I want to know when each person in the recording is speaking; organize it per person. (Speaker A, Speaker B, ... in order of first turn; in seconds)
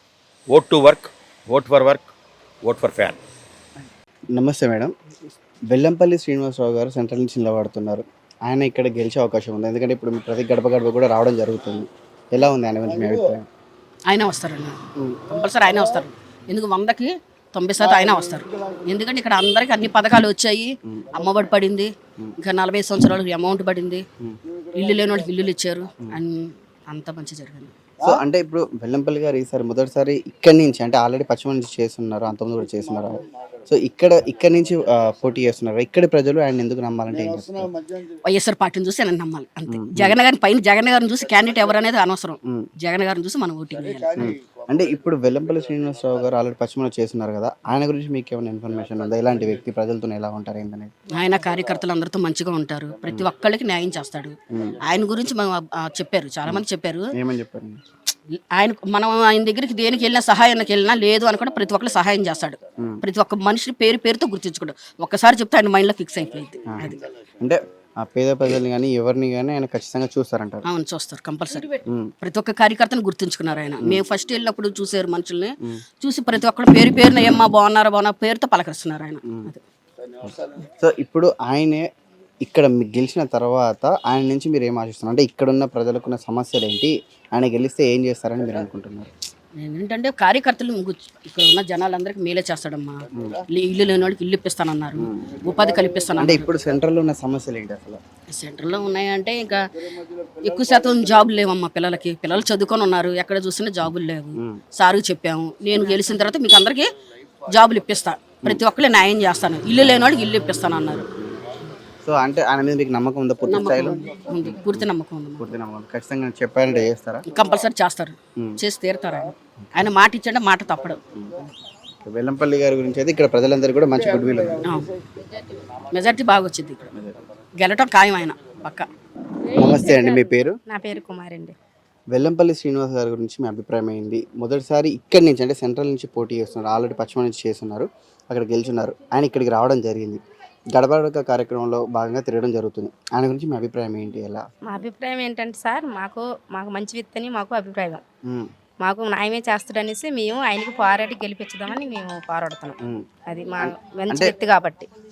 Speaker A: 0.5-2.1, 2.7-3.2
Speaker B: 4.3-4.9, 5.7-13.4, 15.0-15.3, 28.0-37.7, 39.7-40.2, 44.2-50.9, 54.5-54.8, 57.1-57.8, 66.7-70.7, 71.8-72.1, 79.3-79.5, 80.2-81.9, 82.4-89.1, 93.2-93.4, 95.0-95.4, 96.2-98.0, 111.2-111.4, 112.0-117.3, 121.2-121.4, 122.0-124.6, 129.6-130.6, 132.1-140.2, 140.7-144.5, 153.6-154.3
Speaker C: 14.1-24.1, 24.7-27.7, 38.2-44.4, 51.1-57.1, 58.4-67.0, 70.7-79.6, 89.6-96.5, 98.3-99.7, 100.3-106.9, 107.5-111.1, 113.5-115.4, 117.3-121.0, 124.7-124.9, 125.8-126.9, 127.6-128.9
Speaker D: 105.8-106.2, 130.7-131.6, 144.7-148.0, 148.8-154.9